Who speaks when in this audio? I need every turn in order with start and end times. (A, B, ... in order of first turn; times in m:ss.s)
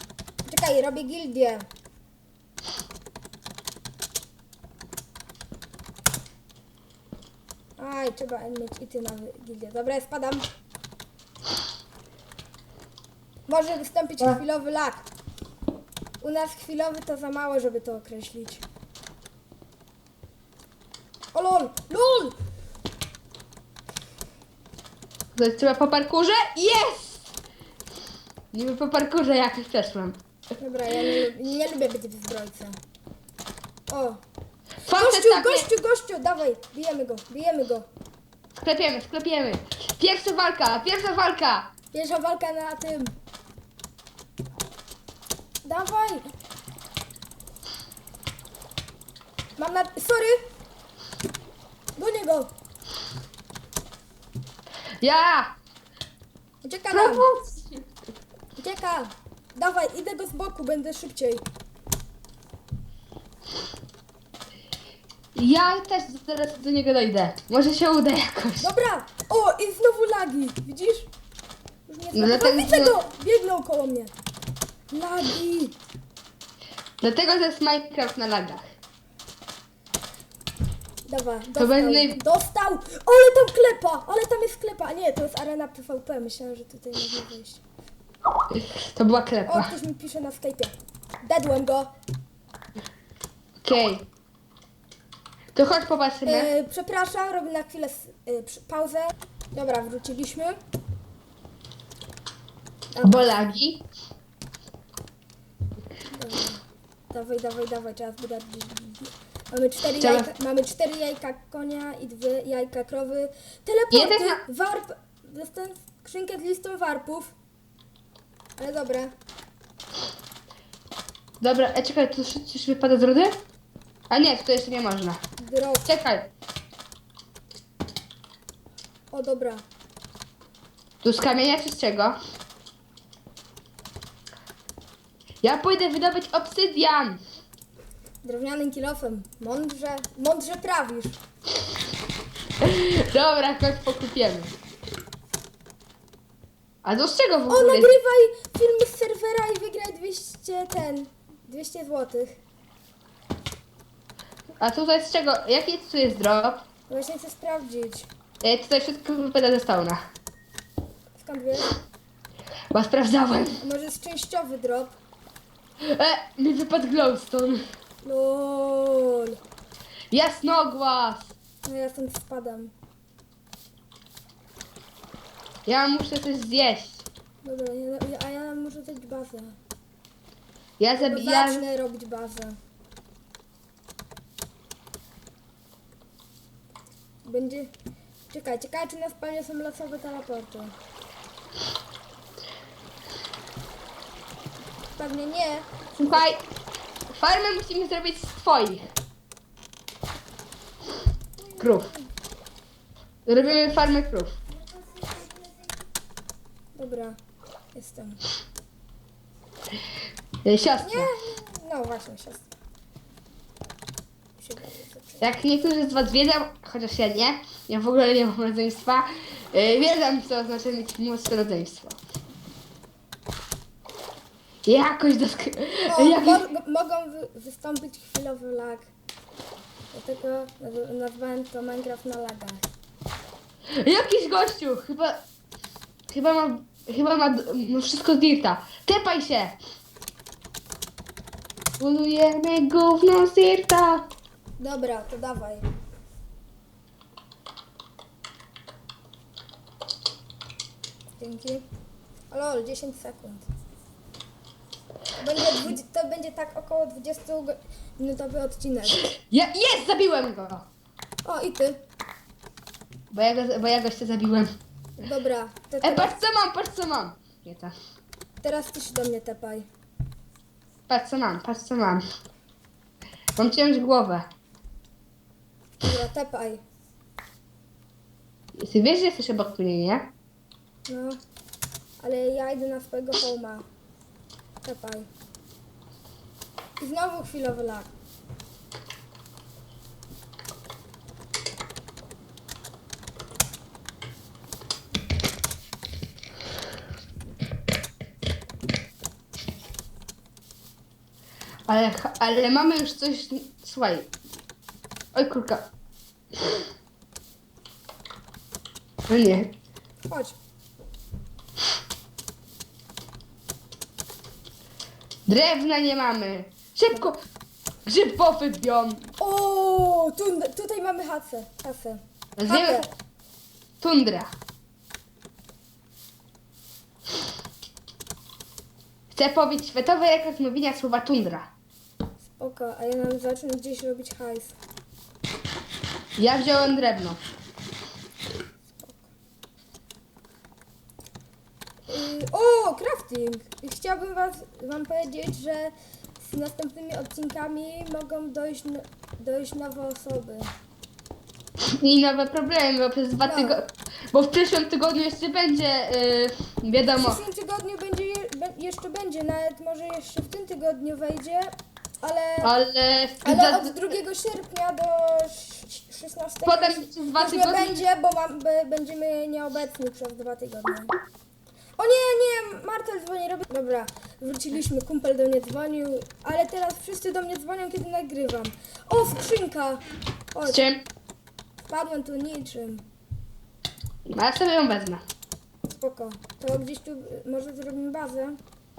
0:00.4-0:01.7 A
0:07.8-0:10.5 A
0:13.5-0:15.0 A
0:16.2-0:18.6 A
0:21.3-0:22.4 A
0:25.3-0:27.3 B
0:28.5-0:30.2 B
0:30.6-0:32.8 A
0:33.9-0:34.2 A
0:34.8-0:35.7 B
0:34.8-0:37.9 A
0:38.5-0:41.7 B
0:41.9-0:43.1 A
0:45.6-0:46.3 A
0:49.6-0:50.4 A
0:52.0-0:52.5 A
0:55.0-0:55.5 B
0:56.6-0:57.3 A
0:56.9-0:57.8 B
0:58.6-1:01.4 A
1:05.3-1:08.7 B
1:08.6-1:11.1 A
1:11.9-1:14.1 A
1:12.1-1:13.0 B
1:14.9-1:15.8 A
1:17.0-1:18.6 B
1:21.1-1:27.6 A
1:21.6-1:22.2 B
1:28.6-1:29.7 B
1:29.4-1:31.9 A
1:33.6-1:34.1 B
1:35.5-1:36.5 B
1:36.2-1:40.6 A
1:42.9-1:43.4 A
1:43.0-1:43.8 B
1:46.1-1:57.3 A
1:50.0-1:50.3 B
1:53.9-1:54.4 B
1:58.6-1:59.1 A
2:01.4-2:03.4 B
2:04.1-2:05.2 B
2:05.4-2:05.9 A
2:05.8-2:06.3 B
2:09.1-2:09.6 A
2:11.0-2:12.2 B
2:15.4-2:17.2 B
2:18.2-2:21.2 A
2:22.6-2:24.5 B
2:26.8-2:27.9 B
2:27.5-2:32.4 A
2:34.6-2:36.6 B
2:36.9-2:38.1 A
2:38.4-2:40.0 B
2:41.2-2:41.8 A
2:42.7-2:43.6 B
2:43.6-2:44.9 A
2:45.8-2:47.6 B
2:48.0-2:49.4 A
2:50.1-2:51.3 B
2:51.6-2:52.7 A
2:55.6-2:57.0 B
2:57.4-2:59.6 A
3:00.8-3:01.6 B
3:01.0-3:02.6 A
3:07.2-3:07.7 A
3:08.3-3:10.7 A
3:15.0-3:16.2 A
3:16.0-3:16.4 B
3:17.1-3:18.9 B
3:21.4-3:22.1 A
3:21.6-3:21.9 B
3:23.2-3:24.3 B
3:26.8-3:27.2 A
3:27.7-3:28.2 A
3:30.4-3:31.1 B
3:30.8-3:32.5 A
3:34.4-3:35.3 A
3:35.2-3:42.0 B
3:44.6-3:46.5 B
3:45.9-3:48.9 A
3:49.9-3:52.6 A
3:53.7-3:55.2 B
3:56.1-3:59.6 B
4:01.8-4:04.0 B
4:04.6-4:05.7 A
4:11.2-4:11.6 A
4:12.3-4:13.5 A
4:15.2-4:19.1 A
4:19.1-4:20.6 B
4:21.2-4:21.8 A
4:23.1-4:24.5 B
4:25.0-4:26.2 A
4:25.8-4:27.7 B
4:28.4-4:29.7 A
4:30.9-4:32.0 B
4:33.4-4:34.3 B
4:35.8-4:36.6 A
4:38.6-4:40.1 B
4:40.9-4:41.2 A
4:42.0-4:43.6 A
4:44.6-4:45.1 A
4:46.8-4:47.9 A
5:01.7-5:04.1 B
5:05.1-5:05.7 B
5:06.3-5:06.6 B
5:09.1-5:09.5 B
5:10.0-5:10.3 A
5:15.3-5:17.2 B
5:17.8-5:19.1 B
5:19.2-5:22.9 A
5:22.4-5:22.9 B
5:23.8-5:24.3 B
5:29.1-5:31.5 B
5:32.4-5:34.6 A
5:36.2-5:37.2 B
5:38.8-5:39.1 A
5:41.9-5:50.5 A
5:51.6-5:57.2 B
5:53.2-5:53.6 A
5:56.9-6:02.5 A
6:02.4-6:03.9 B
6:03.2-6:10.9 A
6:06.4-6:07.8 B
6:11.8-6:19.8 A
6:20.3-6:20.6 A
6:20.4-6:20.8 B
6:21.7-6:22.8 A
6:24.1-6:25.0 B
6:25.7-6:28.4 A